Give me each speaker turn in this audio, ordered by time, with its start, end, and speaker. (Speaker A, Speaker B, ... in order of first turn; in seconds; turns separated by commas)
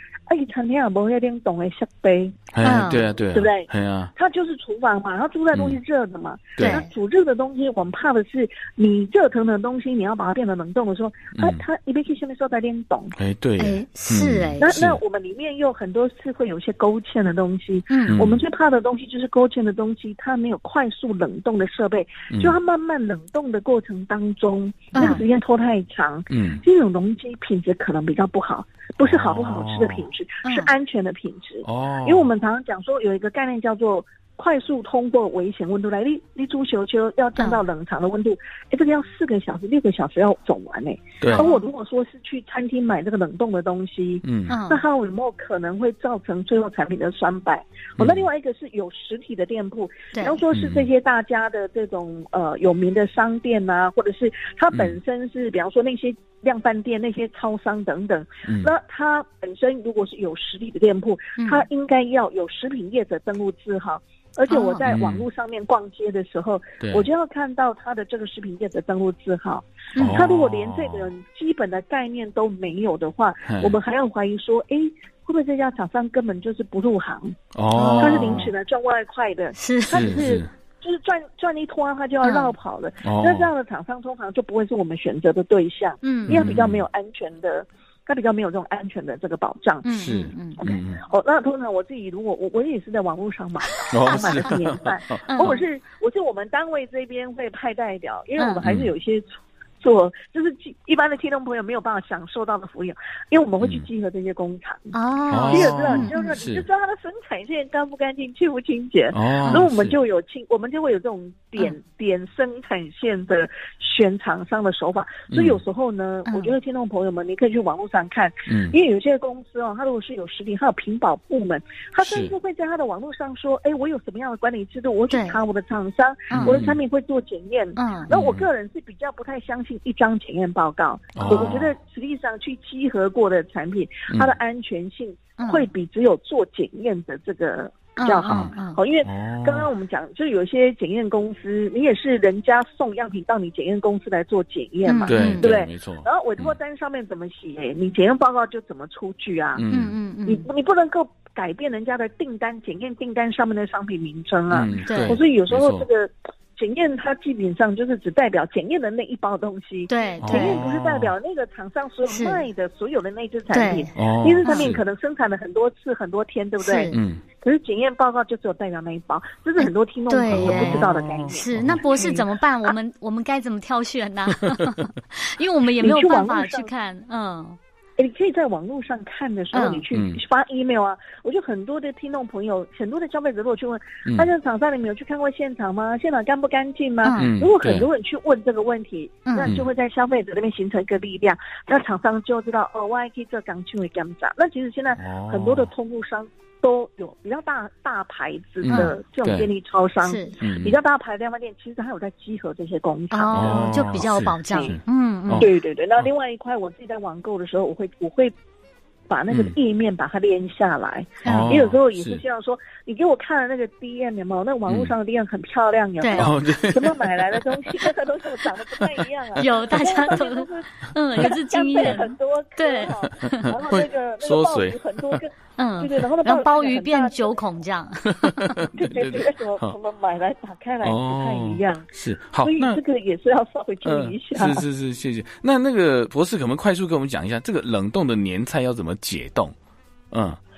Speaker A: 0.3-13.1, Speaker B: 2.5-4.1, Speaker C: 2.6-3.0, Speaker B: 5.5-5.8, Speaker B: 6.6-6.8, Speaker C: 6.6-6.9, Speaker B: 11.3-11.6, Speaker B: 13.1-15.0, Speaker C: 13.6-14.7, Speaker A: 14.6-77.3, Speaker C: 17.9-18.2, Speaker B: 18.1-18.4, Speaker B: 22.3-22.6, Speaker C: 24.9-25.2, Speaker B: 26.3-26.6, Speaker B: 29.0-30.0, Speaker C: 30.4-30.7, Speaker B: 31.6-32.3, Speaker C: 41.3-41.6, Speaker B: 44.2-44.5, Speaker C: 44.5-44.8, Speaker B: 48.0-48.2, Speaker C: 50.1-50.4, Speaker B: 50.5-50.9, Speaker B: 58.5-58.7, Speaker C: 61.4-61.6, Speaker C: 64.5-65.0, Speaker B: 64.8-65.2, Speaker B: 66.8-67.1, Speaker B: 70.0-71.1, Speaker B: 73.5-73.7, Speaker B: 77.5-78.5, Speaker C: 77.7-78.5, Speaker A: 78.0-89.9, Speaker C: 79.5-80.2, Speaker B: 79.9-80.5, Speaker C: 82.2-82.5, Speaker B: 83.0-83.5, Speaker C: 86.0-86.4, Speaker B: 86.3-86.8, Speaker C: 89.8-90.6, Speaker B: 89.9-91.0, Speaker A: 90.6-104.9, Speaker B: 93.9-95.0, Speaker C: 94.1-94.5, Speaker C: 95.3-95.6, Speaker C: 98.4-98.6, Speaker B: 98.6-98.9, Speaker B: 103.6-103.8, Speaker C: 104.9-106.3, Speaker B: 105.3-106.7, Speaker A: 105.5-149.6, Speaker B: 109.1-110.0, Speaker B: 115.3-115.6, Speaker C: 116.2-116.5, Speaker B: 118.5-118.8, Speaker B: 122.0-122.3, Speaker C: 125.1-125.4, Speaker C: 126.3-126.5, Speaker B: 126.4-126.8, Speaker C: 127.8-128.1, Speaker B: 128.1-128.4, Speaker B: 131.1-131.7, Speaker C: 135.4-135.7, Speaker C: 138.0-138.8, Speaker B: 138.3-138.5, Speaker B: 139.0-139.7, Speaker C: 144.8-145.5, Speaker B: 145.1-146.6, Speaker B: 149.5-149.9, Speaker C: 149.7-150.4, Speaker A: 150.2-172.7, Speaker B: 154.5-155.9, Speaker C: 154.9-155.2, Speaker C: 159.9-160.6, Speaker B: 160.2-161.1, Speaker C: 162.1-162.4, Speaker C: 163.5-163.9, Speaker B: 163.9-164.8, Speaker C: 164.4-164.7, Speaker C: 166.6-167.0, Speaker B: 166.9-167.2, Speaker C: 169.6-177.6, Speaker B: 170.3-171.8, Speaker A: 175.8-176.7, Speaker A: 178.0-204.8, Speaker C: 179.5-179.8, Speaker B: 179.9-180.2, Speaker B: 187.2-187.9, Speaker C: 189.3-189.5, Speaker B: 194.9-195.7, Speaker B: 198.6-199.5, Speaker C: 200.0-200.3, Speaker B: 200.4-200.8, Speaker C: 203.1-205.5, Speaker B: 203.3-205.5, Speaker A: 205.3-208.3, Speaker A: 209.1-227.4, Speaker B: 209.3-209.5, Speaker C: 211.2-211.6, Speaker B: 211.2-212.2, Speaker B: 214.7-214.9, Speaker C: 216.0-216.3, Speaker B: 216.1-217.8, Speaker B: 218.8-220.0, Speaker C: 219.3-223.5, Speaker B: 223.6-225.2, Speaker C: 225.6-228.6, Speaker B: 228.1-229.7, Speaker A: 228.7-231.9, Speaker B: 230.8-232.8, Speaker A: 232.4-234.7, Speaker B: 233.8-239.5, Speaker B: 240.1-240.4